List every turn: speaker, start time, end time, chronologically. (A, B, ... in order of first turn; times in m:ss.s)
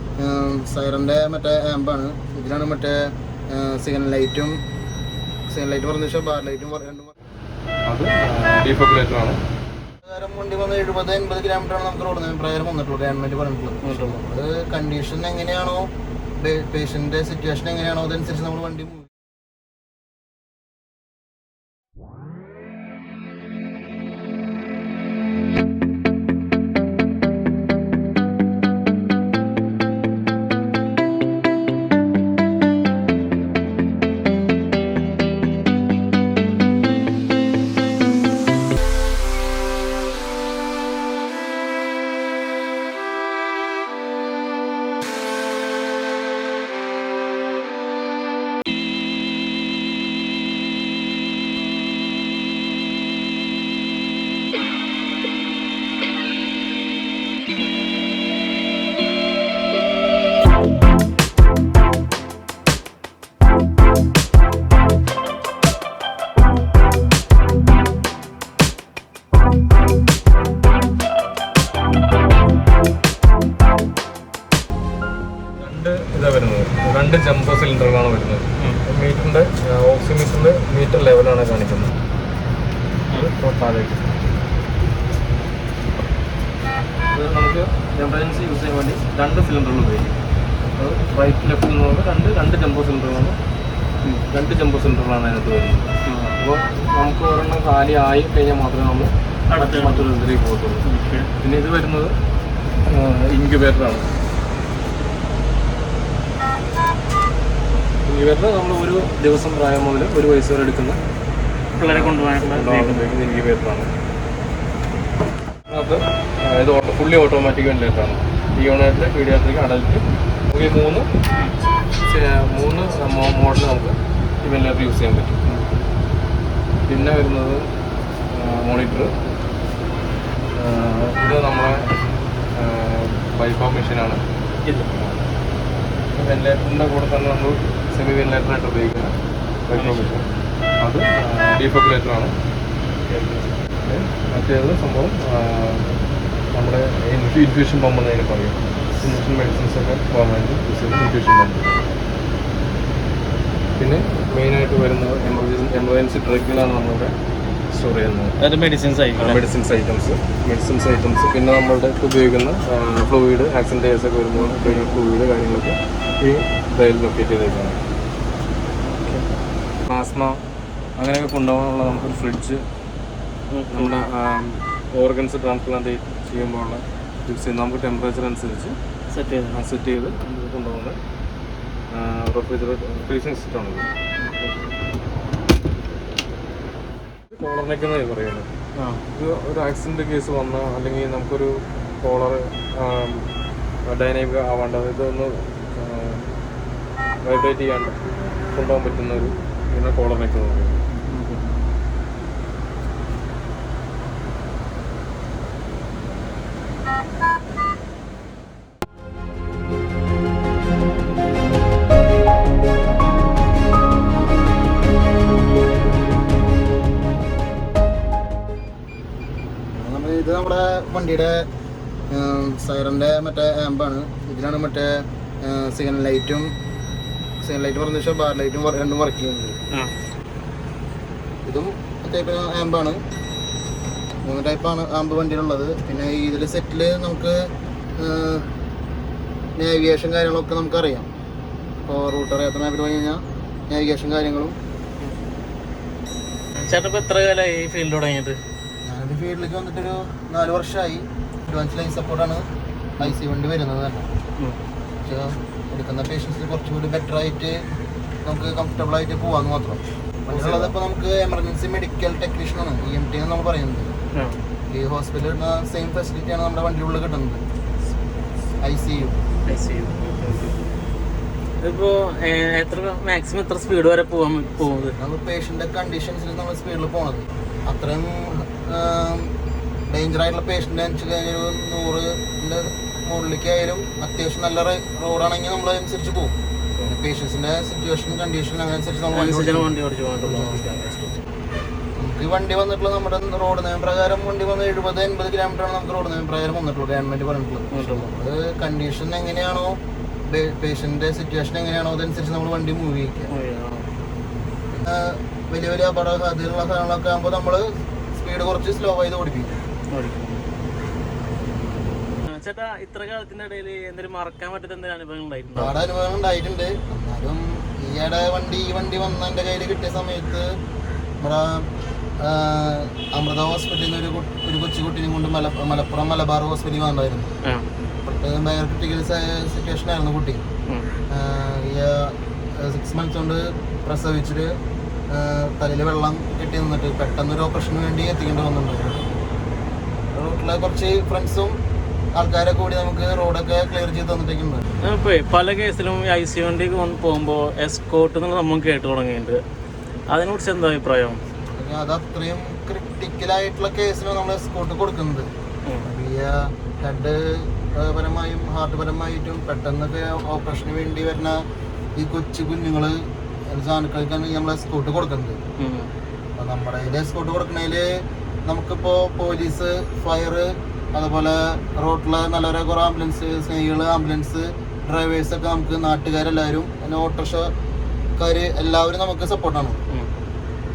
0:00.2-0:04.6 A
0:05.5-0:07.1 A
0:07.9-0:09.4 B
0:10.0-0:19.1 A
0:13.8-0:14.2 C
1:15.6-1:22.0 B
1:23.1-1:24.2 B
1:27.1-1:30.1 B
1:30.8-1:33.4 B
1:34.3-1:42.2 B
1:36.1-1:36.4 C
1:39.5-1:40.2 C
1:40.8-1:41.3 C
1:42.8-1:44.1 B
1:48.0-1:51.0 B
1:51.8-1:53.2 C
1:51.9-1:53.9 B
1:55.7-2:01.1 B
2:02.0-2:05.5 B
2:06.9-2:07.7 B
2:08.3-2:09.1 B
2:10.6-2:11.9 B
2:12.5-2:14.2 B
2:16.1-2:19.1 B
2:19.7-2:20.2 B
2:19.8-2:20.1 C
2:20.8-2:22.3 B
2:23.1-2:25.9 B
2:26.5-2:31.8 B
2:33.8-2:37.2 B
2:37.7-2:38.3 B
2:38.4-2:39.4 C
2:39.2-2:47.8 B
2:44.4-2:45.0 C
2:48.8-2:49.2 C
2:49.8-2:50.4 B
2:51.0-2:52.6 B
2:53.5-2:54.0 C
2:53.7-2:58.8 B
2:59.1-2:59.6 C
2:59.5-3:01.0 B
3:01.9-3:03.9 B
3:04.2-3:04.5 C
3:07.3-3:08.5 B
3:08.8-3:09.0 C
3:09.1-3:13.3 B
3:13.8-3:16.3 B
3:17.2-3:18.0 B
3:18.5-3:20.8 B
3:21.0-3:21.5 C
3:39.7-3:41.5 A
3:42.1-3:46.5 A
3:47.4-3:49.6 A
3:51.4-3:53.0 A
3:54.2-3:58.5 A
3:59.6-4:01.1 A
4:01.8-4:04.6 A
4:06.6-4:08.4 C
4:08.8-4:14.1 A
4:15.0-4:17.6 A
4:18.2-4:23.9 A
4:20.3-4:20.7 C
4:24.1-4:24.4 C
4:24.7-4:27.4 A
4:28.6-4:29.2 A
4:29.4-4:30.5 C
4:31.6-4:35.0 C
4:34.9-4:39.3 A
4:39.9-4:49.7 A
4:49.1-4:51.2 C
4:50.2-4:50.6 A
4:52.0-5:03.3 A
4:57.7-4:58.1 C
5:03.3-5:03.9 C
5:04.7-5:09.6 A
5:09.9-5:10.4 C
5:12.3-5:15.8 C
5:15.6-5:20.5 A
5:21.2-5:21.7 A
5:22.2-5:27.3 A
5:28.0-5:30.4 A
5:31.1-5:34.6 A
5:35.1-5:39.0 A
5:40.1-5:41.5 A
5:42.1-5:44.6 A
5:44.8-5:49.4 C
5:50.1-5:51.2 C
5:51.6-5:55.3 A
5:55.8-6:01.4 A
6:02.0-6:05.4 A
6:05.6-6:05.9 C
6:06.4-6:17.5 A
6:18.2-6:19.8 A